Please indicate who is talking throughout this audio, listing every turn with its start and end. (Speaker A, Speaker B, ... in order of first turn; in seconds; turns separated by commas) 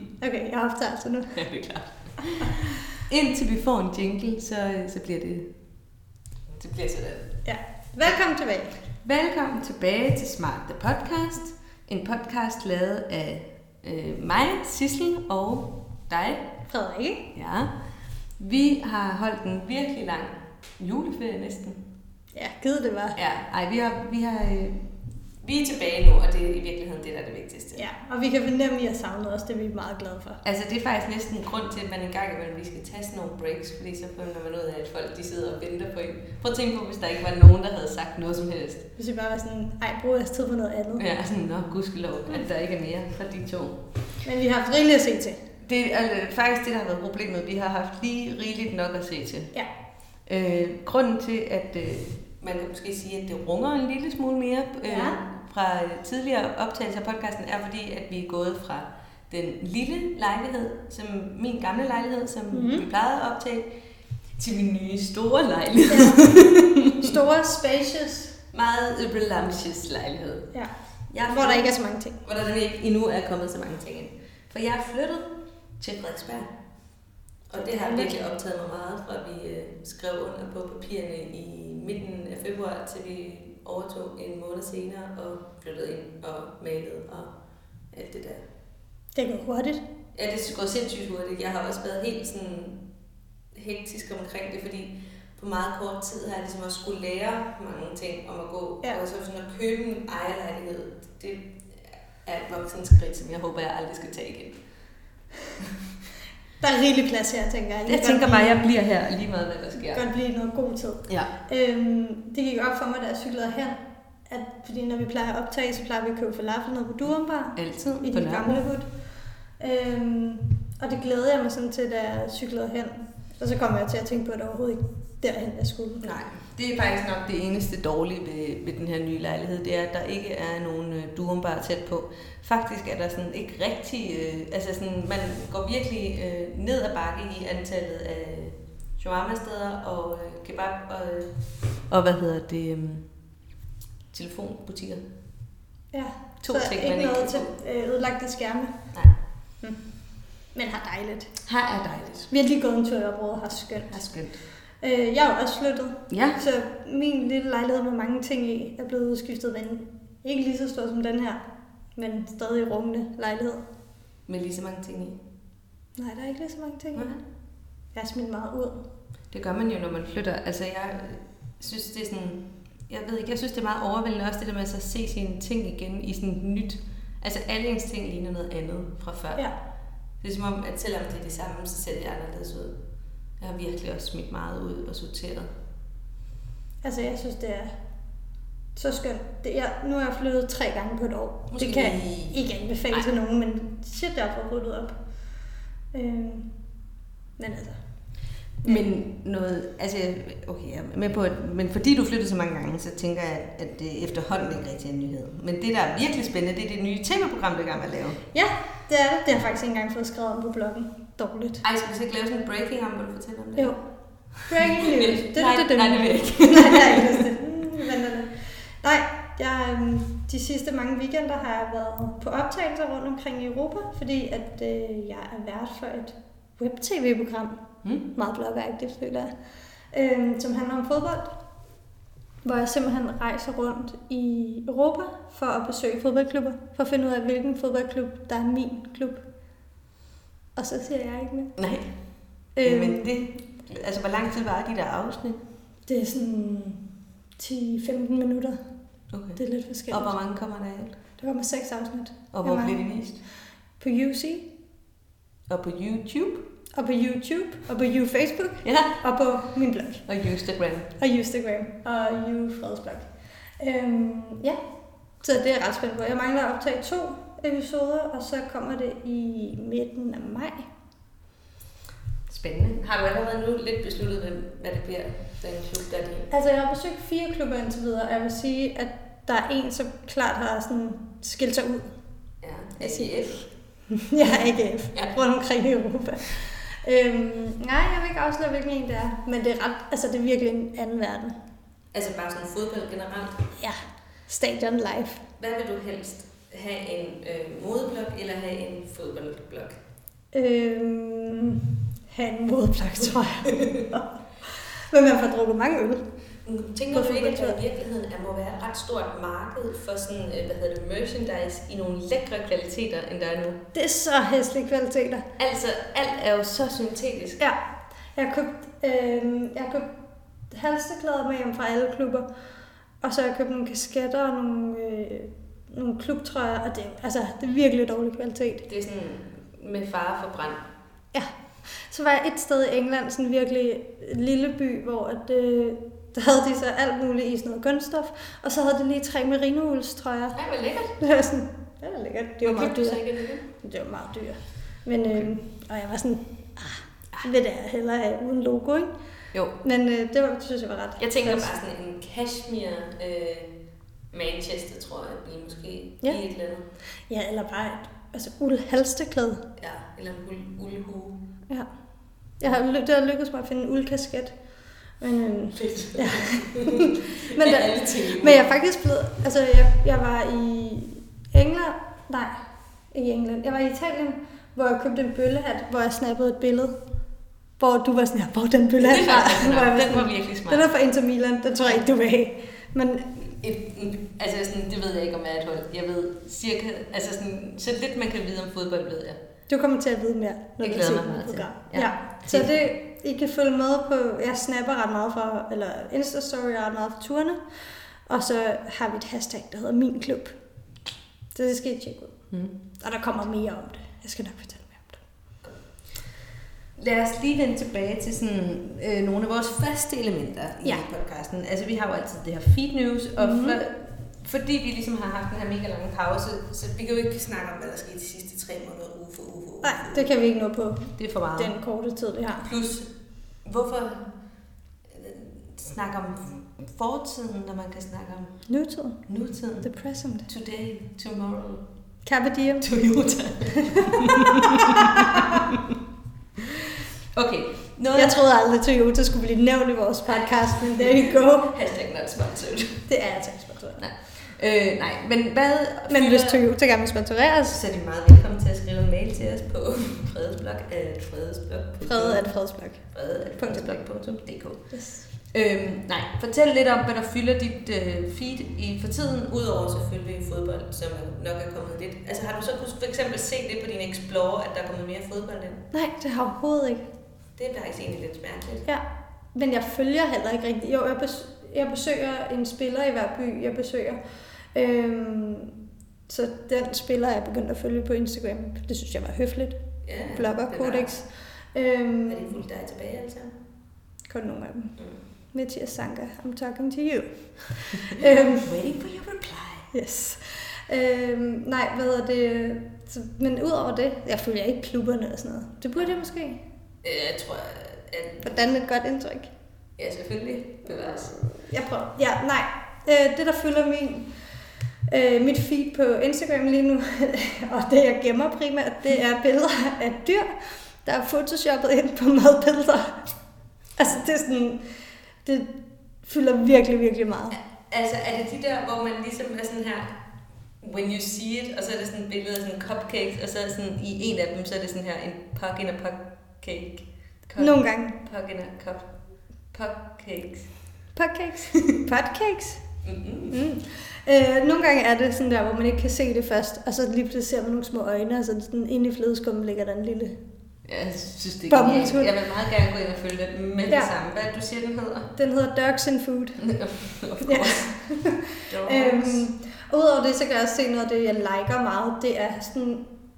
Speaker A: 0.2-1.4, Speaker B: 1.3-5.5, Speaker B: 6.5-7.4, Speaker A: 7.4-8.8, Speaker B: 9.0-16.5, Speaker A: 16.7-17.3, Speaker B: 17.3-17.7, Speaker B: 18.4-21.8, Speaker A: 22.3-23.2, Speaker B: 23.1-24.8, Speaker B: 25.4-27.8, Speaker A: 27.8-30.4, Speaker B: 30.4-38.9, Speaker A: 39.0-41.0, Speaker B: 41.0-43.8, Speaker A: 44.2-45.4, Speaker B: 45.6-49.5, Speaker B: 50.2-63.7, Speaker A: 54.9-55.2, Speaker A: 62.5-62.9, Speaker B: 64.4-67.1, Speaker A: 65.9-66.3, Speaker A: 67.0-68.3, Speaker B: 68.5-70.6, Speaker B: 71.1-76.5, Speaker A: 71.3-72.2, Speaker B: 77.5-87.3, Speaker A: 77.5-78.2, Speaker B: 87.9-88.4, Speaker A: 89.1-89.8, Speaker B: 90.1-92.8, Speaker B: 93.5-101.7, Speaker B: 102.2-104.6, Speaker A: 106.6-108.7, Speaker B: 107.8-110.0, Speaker A: 109.8-126.0, Speaker B: 111.1-111.3, Speaker B: 117.5-118.7, Speaker B: 126.0-141.3, Speaker B: 141.9-143.1, Speaker B: 144.1-145.0, Speaker A: 145.9-148.7, Speaker B: 146.4-147.5, Speaker A: 150.5-151.3, Speaker B: 151.4-152.3, Speaker A: 152.3-154.0, Speaker B: 153.9-154.4, Speaker A: 154.8-161.4, Speaker B: 156.1-156.4, Speaker A: 161.9-163.6, Speaker B: 164.3-165.2, Speaker A: 166.0-167.1, Speaker B: 166.9-167.2, Speaker A: 167.9-168.8, Speaker B: 169.3-179.5, Speaker B: 180.2-182.8, Speaker B: 183.4-185.5, Speaker A: 186.8-187.7, Speaker A: 188.7-195.0, Speaker B: 191.5-193.0, Speaker A: 195.9-196.5, Speaker A: 197.4-197.8, Speaker B: 198.6-208.2, Speaker A: 198.6-198.9, Speaker A: 208.3-211.6, Speaker B: 211.6-213.8, Speaker B: 214.3-217.3, Speaker A: 214.4-229.3, Speaker A: 229.9-231.3, Speaker A: 232.4-239.2, Speaker A: 240.6-241.5, Speaker B: 241.6-242.0, Speaker A: 242.5-243.1, Speaker B: 242.6-245.4, Speaker A: 245.9-246.8, Speaker A: 247.4-248.6, Speaker B: 249.1-251.0, Speaker A: 249.4-250.1, Speaker A: 251.2-252.8, Speaker B: 252.3-253.2, Speaker A: 253.8-254.5, Speaker B: 255.5-256.4, Speaker A: 256.7-260.0, Speaker B: 258.6-259.0, Speaker B: 260.1-260.9, Speaker A: 261.0-264.6, Speaker A: 265.2-270.7, Speaker B: 272.3-276.3, Speaker A: 276.3-281.9, Speaker B: 282.4-283.5, Speaker A: 282.8-283.2, Speaker A: 283.9-291.4, Speaker B: 291.9-293.4, Speaker A: 293.6-295.2, Speaker B: 295.4-299.8, Speaker A: 300.3-306.1, Speaker B: 306.4-313.6, Speaker A: 306.9-307.6, Speaker A: 313.7-315.2, Speaker B: 315.4-317.4, Speaker A: 318.1-319.9, Speaker A: 320.5-322.3, Speaker A: 323.0-328.6, Speaker B: 328.7-330.6, Speaker A: 331.1-340.4, Speaker B: 340.3-341.0, Speaker A: 341.0-348.9, Speaker B: 342.4-343.5, Speaker B: 345.1-345.3, Speaker A: 349.6-351.5, Speaker B: 351.0-353.5, Speaker B: 354.1-356.6, Speaker A: 357.1-359.4, Speaker B: 359.6-361.2, Speaker A: 362.4-364.4, Speaker A: 365.0-376.8, Speaker B: 365.5-368.4, Speaker A: 377.6-383.1, Speaker B: 378.8-380.6, Speaker B: 383.2-389.2, Speaker A: 389.5-400.3, Speaker B: 390.6-392.5, Speaker A: 401.3-402.2, Speaker B: 402.3-402.6, Speaker A: 402.8-405.0, Speaker B: 405.4-405.9, Speaker B: 406.8-420.1, Speaker A: 413.2-413.6, Speaker A: 419.6-422.4, Speaker B: 420.9-421.5, Speaker B: 422.4-422.9, Speaker B: 423.4-424.1, Speaker B: 424.9-428.4, Speaker A: 428.5-429.0, Speaker B: 429.1-429.7, Speaker A: 429.6-430.3, Speaker B: 430.3-431.6, Speaker A: 432.0-432.6, Speaker B: 432.6-435.6, Speaker A: 433.8-435.4, Speaker B: 437.1-438.2, Speaker A: 437.9-441.5, Speaker B: 440.1-442.9, Speaker A: 442.9-443.8, Speaker B: 443.8-446.4, Speaker A: 445.9-447.6, Speaker B: 447.5-452.3, Speaker A: 451.8-453.8, Speaker B: 452.8-465.7, Speaker A: 454.7-455.1, Speaker A: 465.7-466.9, Speaker B: 467.4-468.6, Speaker A: 468.6-475.5, Speaker A: 476.1-482.4, Speaker B: 479.8-480.9, Speaker B: 482.1-483.3, Speaker A: 484.1-484.8, Speaker A: 485.3-488.5, Speaker B: 487.8-489.7, Speaker A: 489.7-496.4, Speaker B: 496.8-498.4, Speaker A: 498.2-499.3, Speaker B: 499.8-501.2, Speaker A: 500.9-513.1, Speaker A: 513.8-517.4, Speaker B: 517.3-520.0, Speaker B: 520.6-529.0, Speaker A: 527.4-528.0, Speaker B: 529.5-530.6, Speaker A: 530.9-532.7, Speaker B: 532.8-533.4, Speaker A: 533.3-540.2, Speaker B: 540.6-545.1, Speaker A: 541.5-542.1, Speaker A: 545.2-546.4, Speaker B: 546.4-547.7, Speaker A: 547.2-552.9, Speaker B: 548.4-549.3